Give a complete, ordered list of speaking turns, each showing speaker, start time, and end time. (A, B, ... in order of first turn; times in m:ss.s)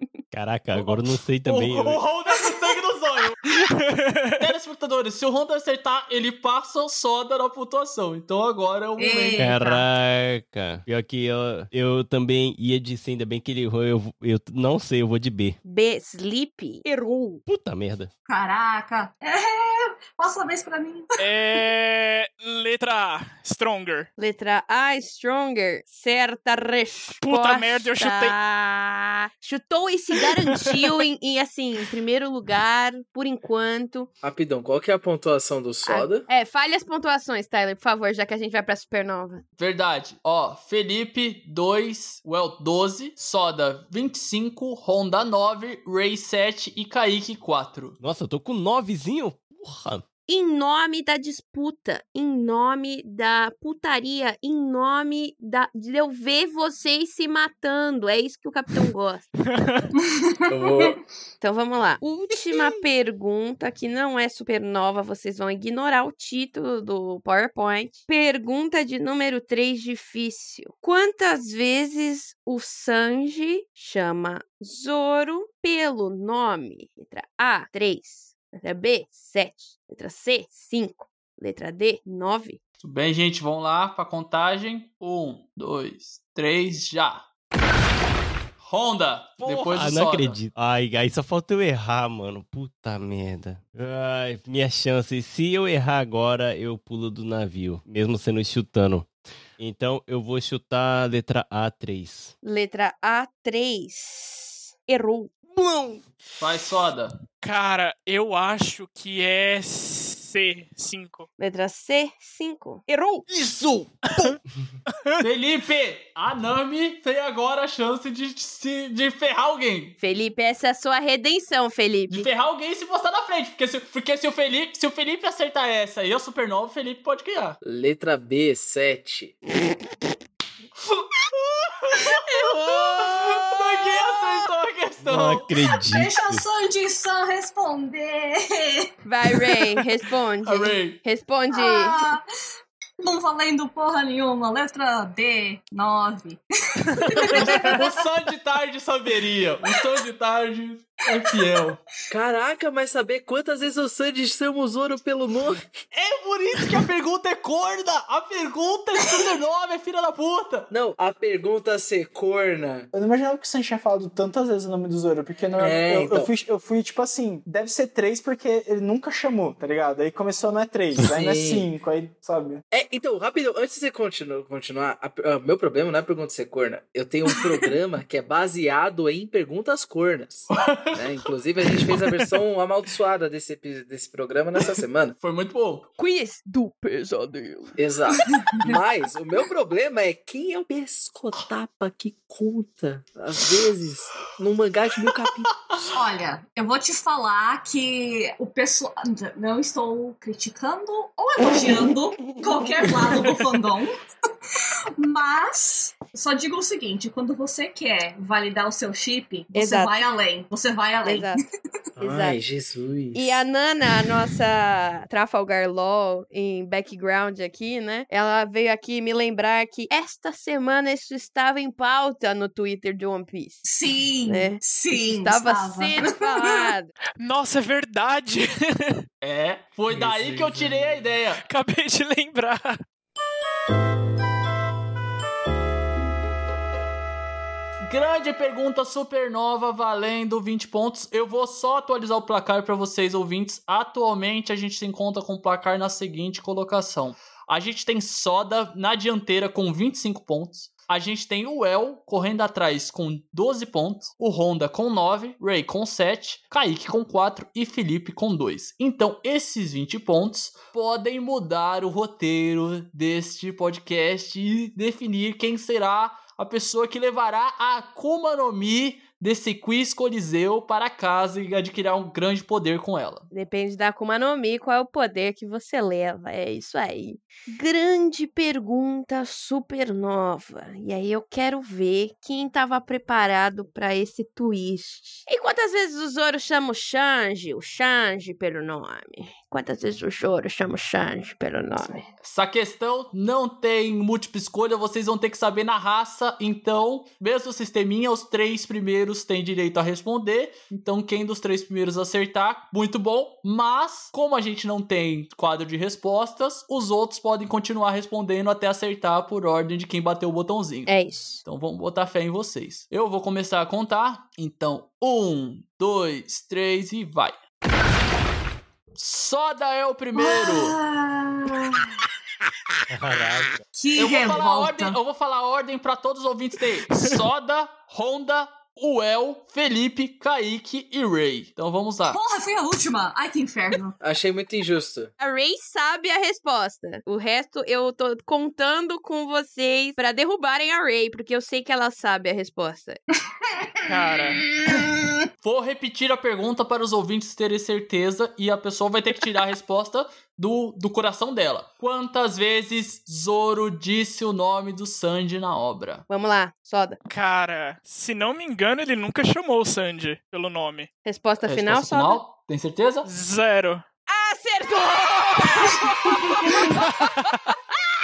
0:00.3-0:02.0 A
0:00.7-0:03.4 B
0:03.6-0:04.5 C
0:04.4-0:09.5 B
0:09.0-0:09.9 D
0:09.4-0:15.6 A
0:15.6-0:16.9 E
0:17.4-0:18.1 A
0:18.3-0:21.2 D
0:21.2-0:24.1 C
0:24.2-0:34.1 E
0:27.2-0:28.4 C
0:34.2-0:36.3 F
0:35.9-0:39.4 E
0:39.6-0:48.0 B
0:48.0-0:50.0 A
0:50.3-0:59.3 E
0:59.4-0:59.9 C
1:00.0-1:01.0 D
1:00.5-1:01.0 F
1:01.4-1:22.6 E
1:22.8-1:27.3 B
1:28.6-1:30.4 B
1:29.4-1:42.3 A
1:42.4-1:45.4 E
1:46.4-1:47.2 B
1:47.4-1:51.3 C
1:51.4-1:52.9 E
1:54.1-1:54.4 C
1:54.9-1:55.2 C
1:55.2-2:00.0 B
2:00.0-2:02.3 E
2:02.1-2:07.6 B
2:07.6-2:09.4 F
2:10.9-2:15.6 B
2:12.3-2:13.5 E
2:15.0-2:16.4 A
2:15.8-2:19.6 D
2:19.0-2:22.0 E
2:20.4-2:21.0 B
2:21.5-2:22.2 D
2:23.0-2:28.1 D
2:27.2-2:27.7 C
2:27.3-2:31.8 B
2:29.7-2:30.0 D
2:31.2-2:31.6 D
2:32.1-2:35.7 F
2:35.9-2:40.7 B
2:40.7-2:42.9 F
2:42.9-2:52.6 G
2:45.6-2:46.3 F
2:51.1-2:51.7 F
2:52.7-3:05.2 F
3:00.5-3:02.3 B
3:05.2-3:05.9 B
3:06.0-3:07.7 E
3:07.8-3:15.6 F
3:08.2-3:08.7 D
3:15.9-3:24.0 D
3:25.0-3:31.4 D
3:29.5-3:30.0 E
3:31.0-3:31.4 E
3:32.0-3:33.4 F
3:32.0-3:32.4 E
3:33.2-3:43.6 E
3:43.6-3:46.7 D
3:44.3-3:46.9 E
3:47.2-3:49.0 C
3:49.2-3:51.4 B
3:49.9-3:51.1 F
3:51.4-3:52.8 C
3:57.9-4:33.3 B
4:33.3-4:52.1 E
4:52.2-5:17.4 B
5:10.9-5:11.4 E
5:19.0-5:20.8 B
5:20.1-5:21.9 D
5:22.9-5:23.6 A
5:23.7-5:25.0 D
5:24.0-5:32.2 B
5:32.1-5:34.0 D
5:34.0-5:35.1 F
5:35.2-5:43.0 E
5:43.2-5:43.9 D
5:43.9-5:44.4 C
5:44.4-5:45.3 D
5:45.4-5:56.0 B
5:56.1-5:57.0 E
5:57.1-6:00.9 C
6:01.0-6:02.2 E
6:01.5-6:03.1 B
6:03.0-6:03.8 C
6:04.1-6:06.9 E
6:06.8-6:07.5 C